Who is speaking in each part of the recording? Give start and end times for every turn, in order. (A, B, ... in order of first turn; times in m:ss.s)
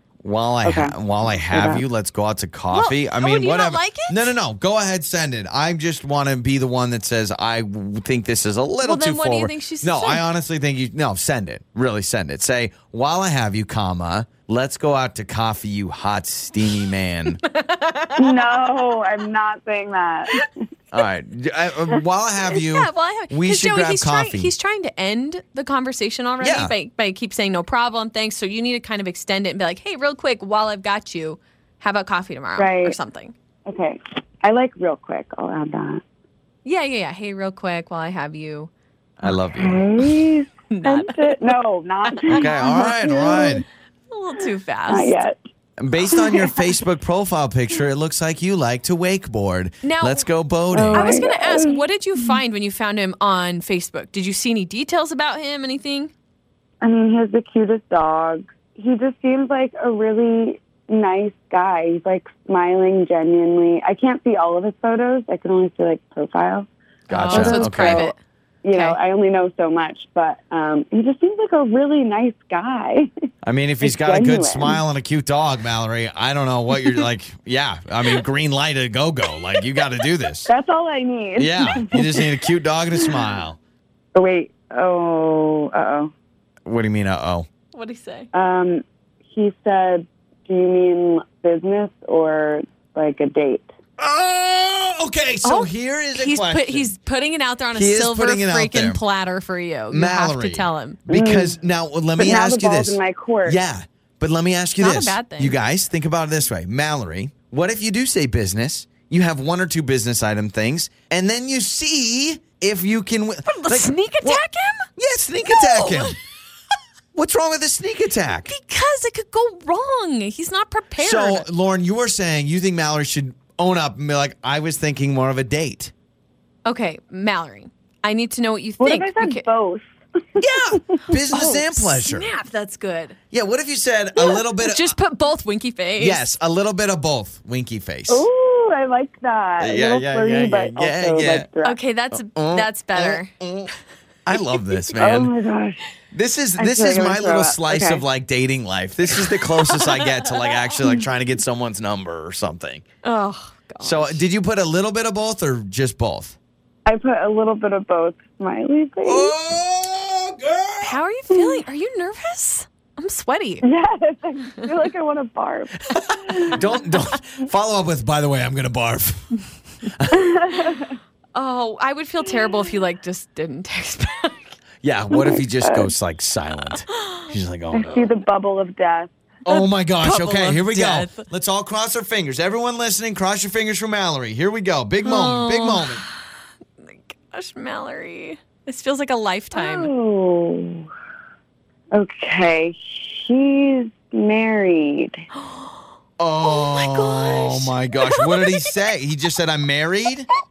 0:00.2-0:17.4 A
0:00.6-0:01.0 B
0:01.5-0:01.8 B
0:02.7-0:04.3 C
0:08.8-0:10.2 C
0:17.4-0:18.5 C
0:18.2-0:20.5 B
0:20.9-0:24.5 A
0:22.5-0:33.3 C
0:26.4-0:26.8 A
0:32.6-0:33.0 B
0:33.7-0:36.0 B
0:36.6-0:38.7 C
0:39.2-0:39.9 A
0:39.6-0:43.6 B
0:40.7-0:41.5 C
0:42.2-0:43.5 C
0:42.3-0:43.6 A
0:44.1-0:45.2 C
0:44.9-0:45.4 B
0:45.8-0:51.1 A
0:46.1-0:46.6 B
0:49.8-0:50.3 C
0:50.7-0:52.4 B
0:50.9-0:56.1 C
0:56.8-1:06.7 B
1:07.1-1:08.1 A
1:07.1-1:08.2 C
1:07.2-1:13.1 B
1:13.4-1:20.5 A
1:13.8-1:14.8 B
1:20.5-1:22.3 B
1:21.4-1:23.6 A
1:24.2-1:26.1 B
1:26.7-1:27.5 A
1:27.7-1:28.3 C
1:28.3-1:33.7 B
1:34.0-1:36.9 A
1:35.4-1:41.0 C
1:37.7-1:39.0 A
1:39.9-1:54.4 A
1:41.1-1:41.6 B
1:42.2-1:43.6 B
1:44.8-1:45.6 C
1:53.5-1:54.9 C
1:55.0-1:56.2 A
1:55.5-1:56.2 C
1:57.1-1:58.5 A
1:58.5-2:01.5 C
2:01.0-2:05.9 A
2:06.6-2:09.4 C
2:08.8-2:09.9 B
2:10.4-2:12.3 A
2:10.9-2:11.2 B
2:11.3-2:13.2 C
2:13.3-2:15.0 A
2:14.6-2:16.3 C
2:16.0-2:18.3 A
2:18.1-2:21.8 B
2:19.6-2:21.5 A
2:21.6-2:23.3 C
2:22.1-2:23.7 A
2:24.3-2:25.3 A
2:25.0-2:25.8 B
2:26.1-2:32.8 A
2:26.6-2:28.0 B
2:29.7-2:30.3 C
2:33.0-2:34.2 C
2:33.8-2:36.4 A
2:36.9-2:39.3 B
2:39.0-2:41.0 A
2:40.8-2:43.7 C
2:41.3-2:41.6 B
2:43.6-2:46.9 B
2:46.0-2:50.5 A
2:50.1-2:50.8 B
2:50.5-2:54.5 C
2:54.8-2:58.1 A
2:55.1-2:55.9 B
2:56.7-2:57.2 C
2:57.7-2:59.1 B
2:59.4-3:06.0 A
2:59.5-3:01.3 C
3:05.0-3:06.2 C
3:06.8-3:09.9 C
3:09.5-3:10.9 B
3:11.9-3:15.2 B
3:15.4-3:15.7 C
3:16.2-3:20.3 A
3:16.4-3:18.7 C